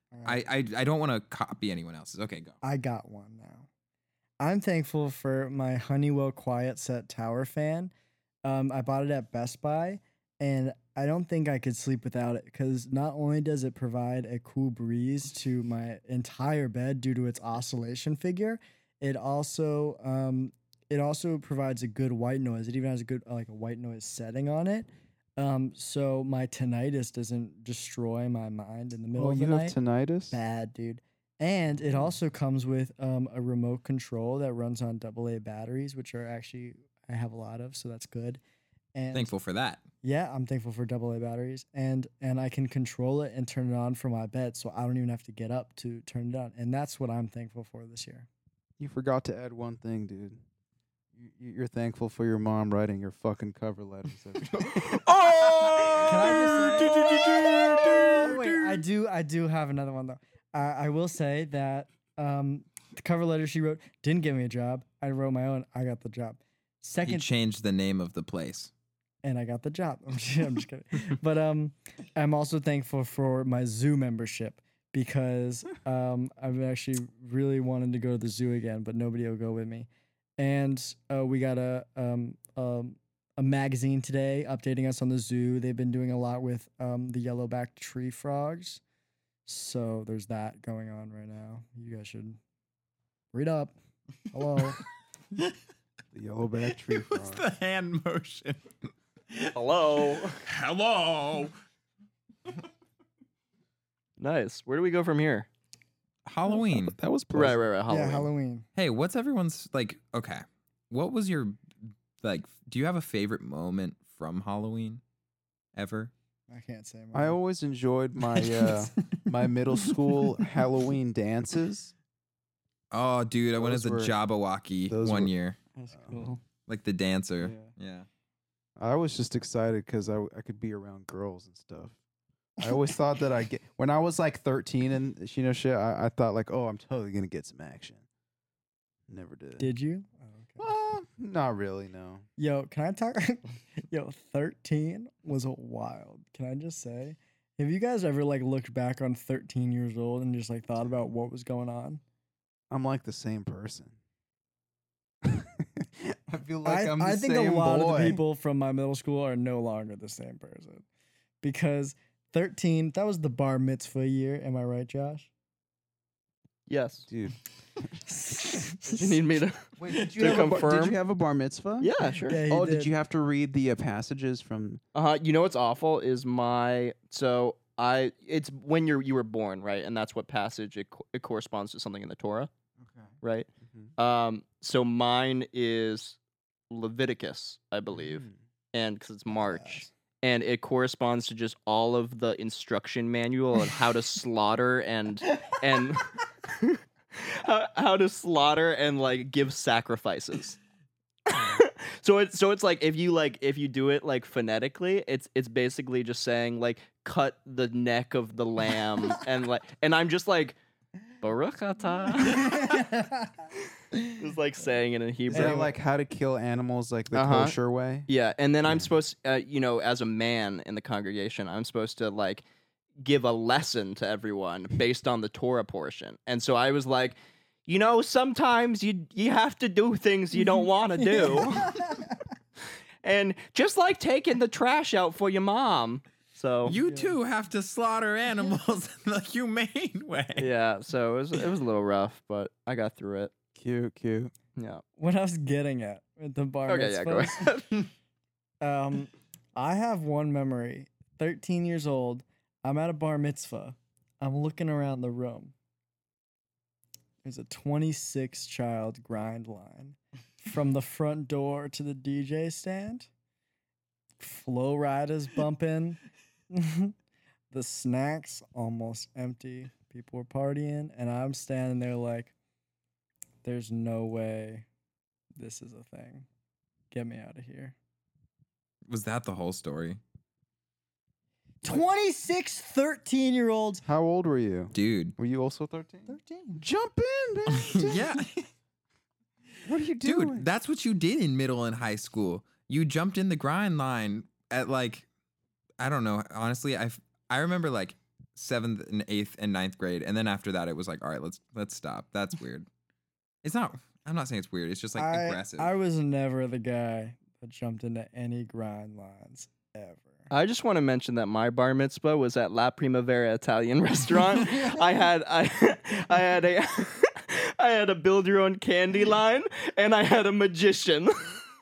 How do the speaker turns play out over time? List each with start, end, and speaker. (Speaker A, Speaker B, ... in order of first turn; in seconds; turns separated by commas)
Speaker A: 0.1-0.4, Speaker B: 0.2-2.6, Speaker A: 2.6-3.7, Speaker A: 4.4-7.9, Speaker A: 8.4-29.8, Speaker C: 29.1-30.4, Speaker A: 30.3-38.4, Speaker A: 38.9-39.3, Speaker B: 39.1-39.8, Speaker A: 40.0-48.3, Speaker C: 48.8-50.4, Speaker C: 51.1-55.0, Speaker B: 54.6-58.8, Speaker A: 56.0-57.1, Speaker A: 58.1-67.2, Speaker B: 67.0-68.7, Speaker A: 69.2-88.8, Speaker A: 89.5-92.4, Speaker A: 93.3-93.7, Speaker A: 94.3-94.8, Speaker C: 96.1-97.5, Speaker B: 96.7-99.6, Speaker D: 99.5-100.4, Speaker B: 100.4-101.5, Speaker D: 104.2-105.5, Speaker B: 106.2-107.0, Speaker C: 106.5-107.6, Speaker D: 107.3-108.3, Speaker A: 107.9-108.7, Speaker B: 108.8-111.6, Speaker B: 112.2-115.0, Speaker B: 115.7-116.1, Speaker A: 116.5-117.4, Speaker C: 117.1-121.9, Speaker A: 118.2-120.0, Speaker B: 122.9-125.6, Speaker C: 123.5-124.1, Speaker C: 124.9-125.3, Speaker A: 125.8-126.4, Speaker C: 126.0-126.2, Speaker B: 126.7-128.1, Speaker A: 127.4-127.7, Speaker C: 128.8-132.0, Speaker C: 132.6-138.0, Speaker C: 139.1-139.7, Speaker A: 139.6-140.7, Speaker C: 140.6-142.2, Speaker A: 142.4-152.0, Speaker C: 152.7-153.9, Speaker C: 155.2-158.2, Speaker A: 156.6-160.8, Speaker A: 161.4-165.3, Speaker D: 166.7-167.1, Speaker C: 167.1-167.4, Speaker A: 168.0-169.2, Speaker D: 168.9-171.0, Speaker C: 169.8-171.9, Speaker A: 170.0-170.5, Speaker D: 171.8-172.4, Speaker A: 172.1-172.9, Speaker C: 172.5-174.8, Speaker D: 174.9-182.5, Speaker D: 183.2-186.2, Speaker D: 186.7-200.6, Speaker C: 188.0-188.3, Speaker A: 189.4-189.8, Speaker D: 201.3-210.6, Speaker D: 211.2-212.7, Speaker A: 212.2-214.1, Speaker D: 214.2-215.7, Speaker A: 215.3-215.7, Speaker C: 215.3-218.1, Speaker D: 217.1-222.4, Speaker D: 223.0-231.7, Speaker A: 230.4-232.2, Speaker D: 233.0-236.7, Speaker B: 236.6-240.5, Speaker A: 236.7-237.1, Speaker D: 240.3-243.3, Speaker C: 243.6-244.3, Speaker D: 244.6-244.8, Speaker A: 245.0-247.8, Speaker D: 246.7-247.8, Speaker A: 248.6-255.5, Speaker A: 257.2-263.1, Speaker A: 264.2-266.9, Speaker A: 267.5-272.3, Speaker A: 273.4-274.6, Speaker A: 275.3-276.3, Speaker A: 276.9-277.7, Speaker B: 278.9-280.0, Speaker A: 281.6-283.8, Speaker C: 283.8-288.1, Speaker B: 284.7-285.1, Speaker A: 286.1-286.6, Speaker B: 287.5-288.5, Speaker C: 289.6-290.4, Speaker B: 290.0-295.1, Speaker B: 295.8-302.7, Speaker B: 303.4-305.7, Speaker A: 304.9-310.3, Speaker D: 310.3-321.4, Speaker A: 314.4-314.9